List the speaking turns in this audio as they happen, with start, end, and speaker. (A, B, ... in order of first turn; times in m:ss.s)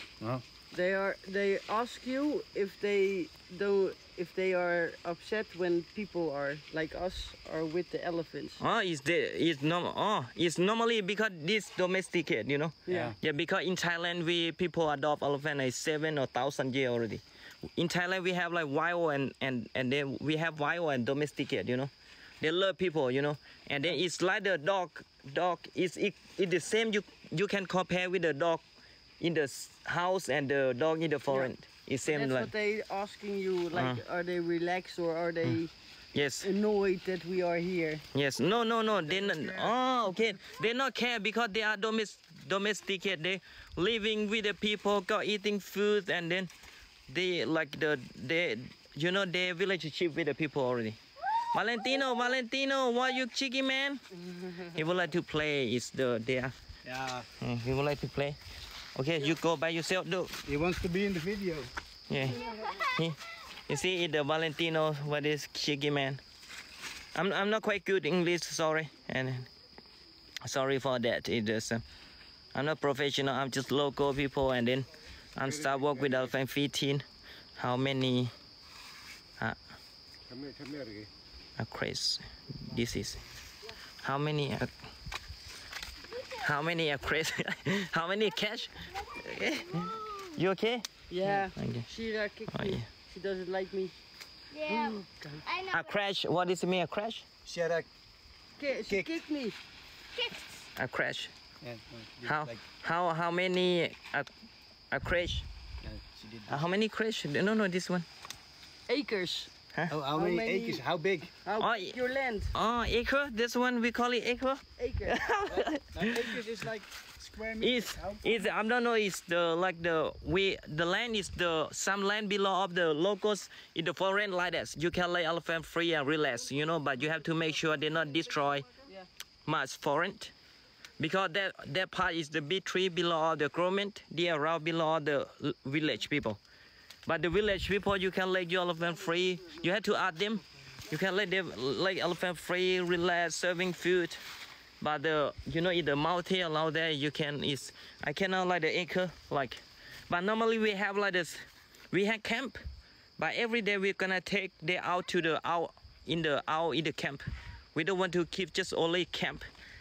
0:00.7-0:08.6 A
0:08.6-0:17.2 B
0:12.9-0:13.2 A
0:17.8-0:28.6 B
0:29.2-0:32.5 B
0:32.0-0:35.7 A
0:33.7-0:34.0 B
0:36.1-0:36.5 B
0:36.4-0:38.0 A
0:38.1-0:46.5 B
0:47.1-0:51.0 B
0:51.5-0:54.0 B
0:54.6-0:56.5 B
0:56.8-0:57.3 C
0:57.4-0:58.4 B
0:59.0-1:00.4 B
1:00.4-1:01.7 C
1:02.1-1:06.2 B
1:02.4-1:03.0 D
1:07.2-1:09.5 B
1:10.4-1:11.8 B
1:12.5-1:17.0 B
1:15.6-1:16.3 C
1:17.6-1:18.3 B
1:20.3-1:21.1 C
1:21.6-1:23.2 B
1:24.0-1:24.7 B
1:26.1-1:26.5 D
1:26.4-1:29.8 B
1:28.8-1:30.4 D
1:30.3-1:30.9 B
1:31.1-1:33.9 A
1:31.6-1:31.9 B
1:32.5-1:32.9 B
1:34.5-1:36.0 D
1:34.7-1:35.4 A
1:35.7-1:37.2 B
1:37.4-1:37.9 C
1:38.6-1:39.6 A
1:40.8-1:41.3 B
1:41.6-1:42.6 C
1:42.2-1:44.3 B
1:44.9-1:45.5 B
1:45.8-1:46.7 C
1:46.5-1:48.1 B
1:48.9-1:49.5 A
1:49.9-1:51.3 C
1:50.1-1:50.8 A
1:51.4-1:52.5 A
1:51.6-1:52.0 B
1:52.5-1:56.4 B
1:54.8-1:55.3 A
1:55.5-1:58.5 C
1:57.6-2:08.7 B
2:09.5-2:10.3 B
2:11.0-2:16.4 B
2:17.1-2:24.2 B
2:24.8-2:32.6 B
2:33.2-2:39.5 B